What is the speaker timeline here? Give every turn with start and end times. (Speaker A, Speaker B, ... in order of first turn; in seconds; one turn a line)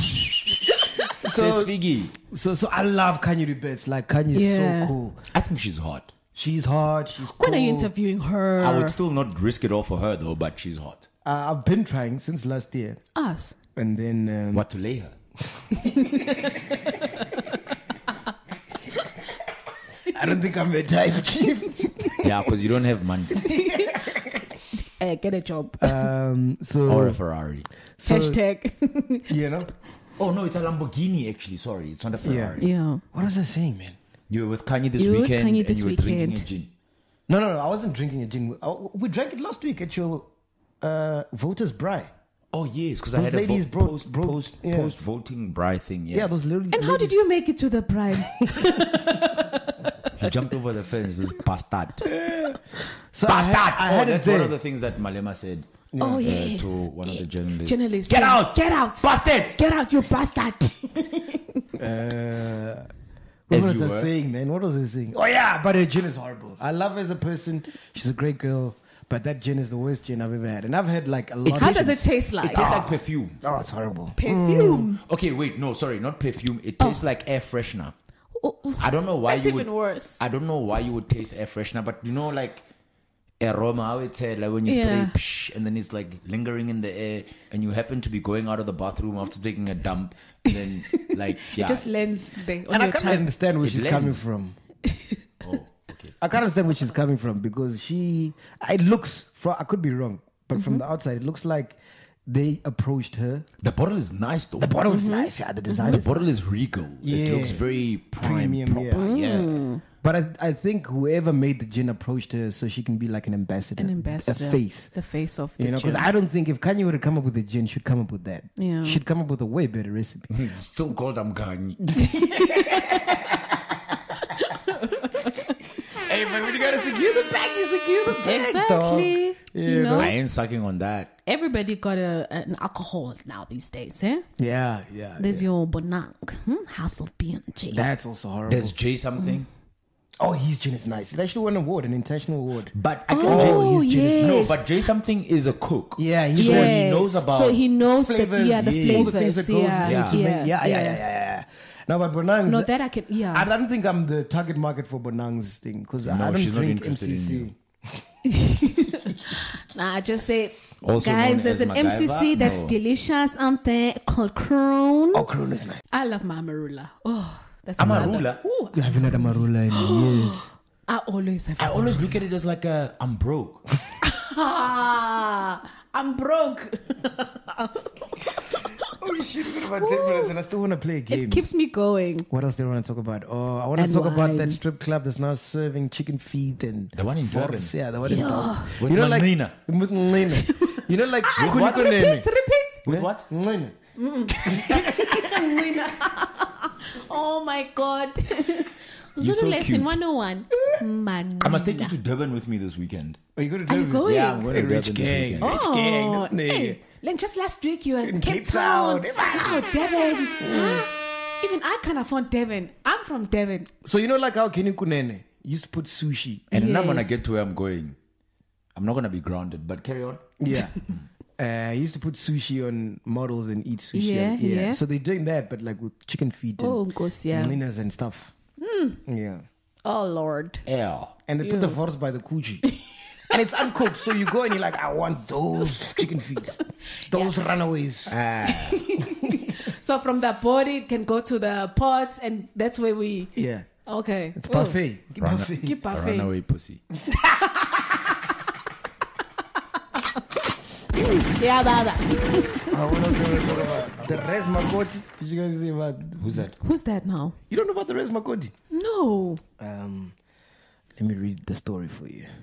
Speaker A: 1.2-5.2
Speaker B: 1.2-2.1
Speaker C: 4.3-4.9
Speaker B: 5.3-6.1
Speaker A: 6.3-7.9
Speaker C: 7.2-8.9
Speaker B: 8.6-11.1
Speaker A: 11.2-13.0
Speaker C: 13.1-13.6
Speaker A: 13.8-14.7
Speaker B: 14.5-15.1
Speaker A: 15.5-16.3
Speaker C: 15.9-16.7
Speaker A: 20.1-22.3
Speaker B: 22.2-23.4
Speaker C: 23.4-23.9
Speaker C: 24.7-26.1
Speaker A: 25.8-27.2
Speaker B: 26.9-27.7
Speaker A: 28.0-28.4
Speaker C: 28.0-29.3
Speaker A: 29.3-29.7
Speaker B: 30.2-32.7
Speaker A: 32.2-32.6
Speaker C: 32.6-33.0
Speaker A: 33.1-34.0
Speaker B: 34.3-36.7
Speaker C: 35.0-36.5
Speaker A: 37.3-40.3
Speaker A: 40.8-42.1
Speaker B: 42.5-46.3
Speaker A: 43.1-44.9
Speaker A: 46.1-47.1
Speaker C: 46.7-49.9
Speaker B: 50.1-52.1
Speaker A: 52.1-52.6
Speaker A: 53.1-54.6
Speaker B: 53.2-59.6
Speaker A: 55.9-56.4
Speaker C: 56.0-61.6
Speaker A: 61.8-62.9
Speaker A: 63.5-74.9
Speaker B: 63.5-64.1
Speaker B: 71.5-71.9
Speaker C: 71.5-72.8
Speaker B: 72.4-73.4
Speaker C: 74.2-75.0
Speaker B: 74.5-77.9
Speaker C: 78.4-80.2
Speaker B: 78.8-82.6
Speaker B: 83.4-91.9
Speaker C: 84.7-85.1
Speaker C: 90.9-93.3
Speaker A: 92.7-94.6
Speaker B: 93.6-94.2
Speaker C: 94.9-95.2
Speaker B: 95.4-96.2
Speaker A: 96.2-103.5
Speaker C: 100.5-100.8
Speaker B: 103.6-104.7
Speaker A: 104.6-106.3
Speaker C: 104.9-106.0
Speaker B: 105.9-109.6
Speaker A: 107.0-109.4
Speaker C: 109.0-109.8
Speaker A: 110.0-114.9
Speaker C: 113.8-116.1
Speaker A: 115.6-120.3
Speaker C: 118.6-119.0
Speaker B: 120.3-122.0
Speaker C: 122.1-123.0
Speaker C: 124.7-125.3
Speaker A: 126.0-130.1
Speaker C: 128.2-130.1
Speaker B: 130.0-131.1
Speaker C: 131.2-134.2
Speaker A: 134.4-135.5
Speaker C: 135.2-137.9
Speaker A: 137.7-138.8
Speaker B: 138.5-139.5
Speaker A: 140.2-144.6
Speaker B: 142.7-147.6
Speaker C: 143.1-144.6
Speaker A: 146.0-146.8
Speaker C: 146.4-151.0
Speaker A: 147.9-152.7
Speaker B: 148.5-150.2
Speaker C: 152.4-153.5
Speaker A: 153.3-158.0
Speaker B: 156.0-157.5
Speaker C: 158.2-165.3
Speaker B: 160.8-162.8
Speaker A: 165.1-165.8
Speaker C: 165.9-172.1
Speaker B: 167.8-168.4
Speaker A: 167.9-168.1
Speaker A: 168.7-170.5
Speaker B: 171.6-173.7
Speaker C: 174.0-178.7
Speaker A: 178.9-181.5
Speaker C: 179.6-180.3
Speaker C: 181.1-182.3
Speaker A: 182.3-192.2
Speaker C: 183.8-184.6
Speaker B: 186.9-187.7
Speaker C: 188.0-188.8
Speaker B: 188.6-189.5
Speaker C: 190.4-192.8
Speaker B: 191.4-192.0
Speaker B: 192.8-193.2
Speaker A: 192.9-193.7
Speaker C: 194.0-201.9
Speaker A: 194.4-195.6
Speaker B: 199.2-200.0
Speaker B: 201.4-203.2
Speaker A: 203.4-206.8
Speaker C: 203.7-204.5
Speaker B: 204.0-205.6
Speaker C: 205.4-213.7
Speaker A: 208.0-209.7
Speaker A: 210.4-210.9
Speaker A: 213.8-216.5
Speaker B: 216.5-217.9
Speaker C: 216.5-217.2
Speaker B: 218.7-220.3
Speaker A: 220.4-220.8
Speaker A: 221.4-228.3
Speaker C: 223.9-224.8
Speaker C: 226.6-227.6
Speaker C: 228.6-229.0
Speaker A: 229.0-229.4
Speaker C: 229.8-230.6
Speaker B: 230.7-231.1
Speaker A: 231.3-232.7
Speaker C: 231.4-231.8
Speaker A: 233.3-238.2
Speaker C: 237.1-237.3
Speaker B: 238.1-238.8
Speaker C: 238.7-244.8
Speaker A: 243.4-243.7
Speaker A: 244.3-245.8
Speaker B: 245.2-246.8
Speaker C: 245.6-246.3
Speaker C: 251.0-253.2
Speaker A: 252.7-256.4
Speaker B: 256.2-256.6
Speaker C: 256.6-257.4
Speaker A: 257.5-258.5
Speaker C: 258.7-259.4
Speaker A: 259.6-260.1
Speaker A: 261.0-262.3